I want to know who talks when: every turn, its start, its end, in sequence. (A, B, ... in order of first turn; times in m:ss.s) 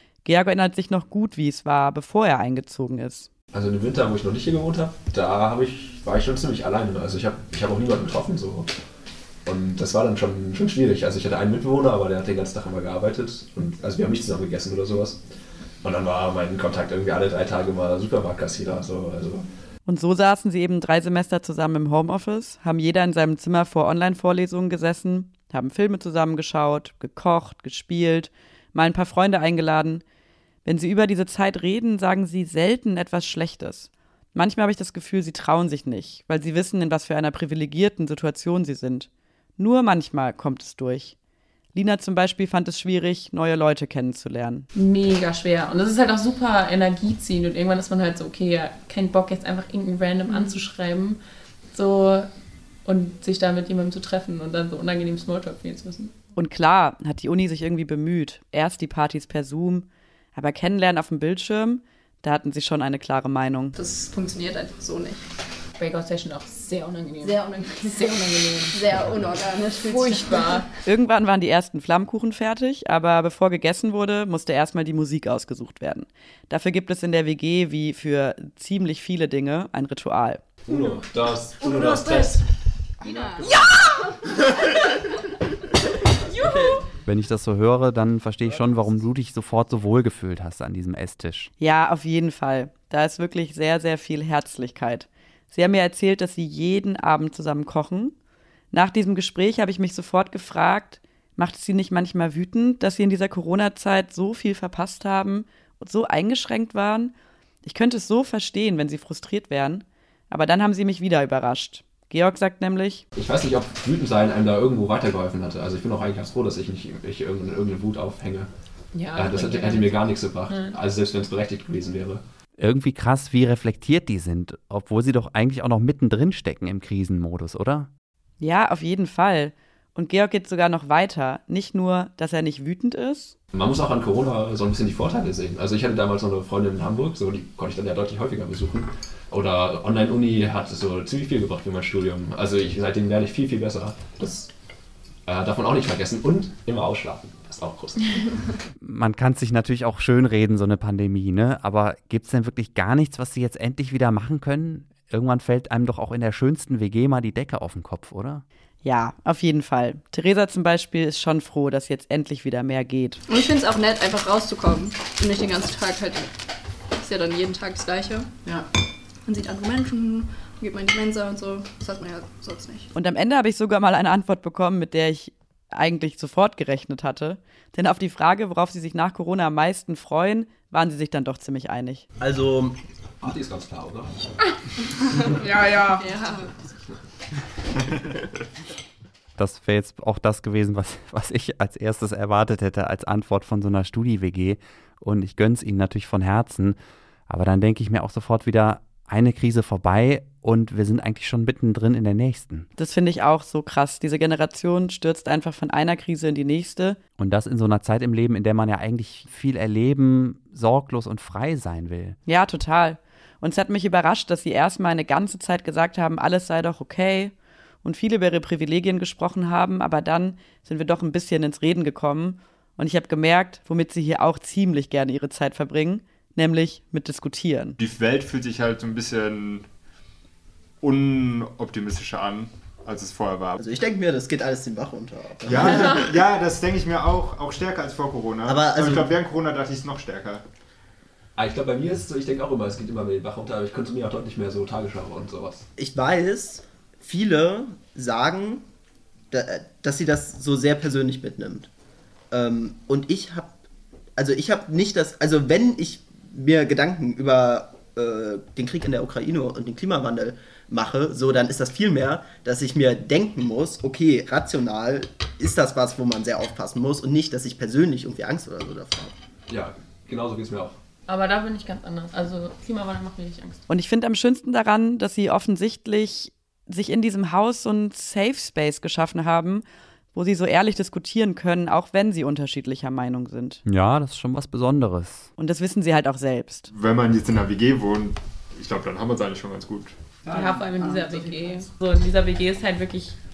0:00.2-0:03.3 A
0:03.5-0:08.7 B
0:09.4-0:15.2 B
0:15.8-0:19.4 B
0:19.8-0:30.0 A
0:30.6-0:41.2 A
0:41.7-0:44.6 A
0:44.7-0:51.2 C
0:51.7-0:52.3 C
0:52.8-0:56.1 C
0:56.4-1:03.7 A
1:03.7-1:05.2 D
1:05.8-1:08.8 C
1:07.2-1:10.6 D
1:09.8-1:10.7 C
1:10.8-1:20.4 A
1:20.6-1:22.4 B
1:23.0-1:23.4 D
1:23.4-1:23.7 C
1:26.3-1:26.8 C
1:27.0-1:31.5 E
1:31.6-1:38.1 A
1:38.7-1:47.1 A
1:47.6-1:53.0 A
1:53.1-1:58.5 B
1:58.9-2:00.8 C
1:59.1-2:02.2 B
2:02.6-2:07.9 E
2:08.4-2:13.3 A
2:13.5-2:24.5 B
2:25.2-2:28.4 B
2:28.8-2:38.4 E
2:38.8-2:43.2 A
2:43.3-2:46.4 D
2:46.9-2:48.6 D
2:49.2-2:52.9 D
2:52.9-3:02.0 A
3:02.2-3:02.8 F
3:03.2-3:04.1 B
3:05.2-3:06.6 D
3:09.4-3:16.8 E
3:17.3-3:22.7 E
3:22.8-3:27.0 A
3:27.2-3:32.2 E
3:32.2-3:47.8 A
3:47.8-3:49.7 G
3:50.8-3:53.6 G
3:53.6-3:56.0 F
3:55.4-4:00.4 G
3:58.4-3:59.1 F
4:01.4-4:05.7 B
4:05.8-4:08.6 F
4:09.3-4:11.7 F
4:12.3-4:13.5 F
4:14.2-4:29.1 F
4:29.5-4:30.8 B
4:31.1-4:33.6 C
4:33.7-4:39.6 A
4:40.1-4:43.6 A
4:43.6-4:45.3 E
4:45.4-4:46.7 A
4:46.7-4:49.9 G
4:50.2-4:53.2 C
4:50.3-4:51.6 D